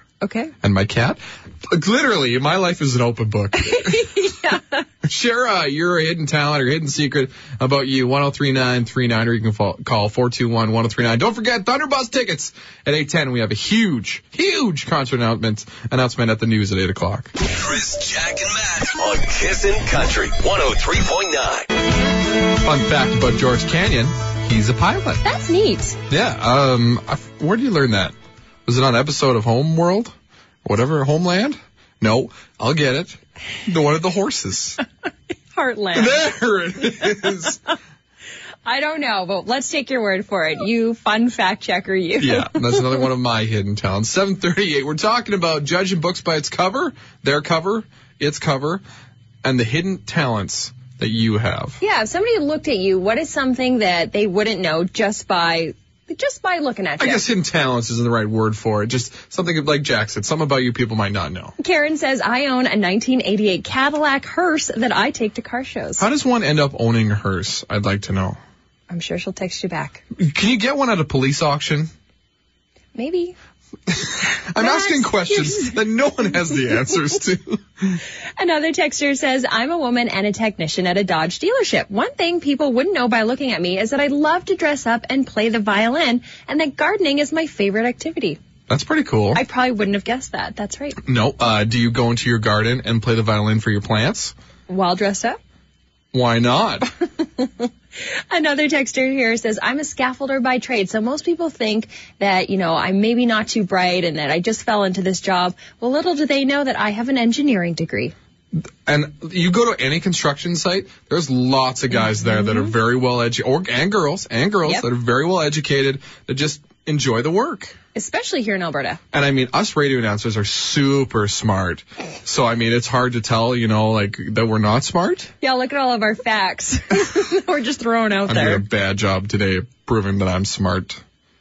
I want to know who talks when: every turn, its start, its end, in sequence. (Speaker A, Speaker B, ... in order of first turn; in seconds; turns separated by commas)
Speaker A: 0.2-0.5, Speaker B: 0.6-4.1, Speaker A: 3.6-4.8, Speaker B: 5.0-17.3, Speaker C: 17.4-21.7, Speaker B: 22.6-25.2, Speaker A: 25.2-26.0, Speaker B: 26.1-28.1, Speaker B: 28.6-34.8, Speaker A: 35.5-36.3, Speaker B: 35.9-37.6, Speaker A: 38.6-42.8, Speaker B: 42.2-48.8, Speaker B: 49.4-51.8, Speaker A: 51.8-57.2, Speaker B: 57.0-61.5, Speaker A: 61.6-66.0, Speaker B: 66.0-68.4, Speaker A: 68.9-70.0, Speaker B: 70.2-71.9, Speaker A: 72.9-73.3, Speaker B: 73.9-78.0, Speaker A: 74.5-75.8, Speaker A: 78.4-88.4, Speaker B: 88.7-89.4, Speaker A: 89.3-91.0, Speaker B: 91.0-94.3, Speaker A: 94.7-95.4, Speaker B: 96.1-96.9, Speaker A: 97.4-108.1, Speaker B: 108.8-117.8, Speaker A: 112.1-112.7, Speaker A: 117.9-119.0, Speaker B: 119.1-125.3, Speaker A: 125.4-128.6, Speaker B: 128.2-131.0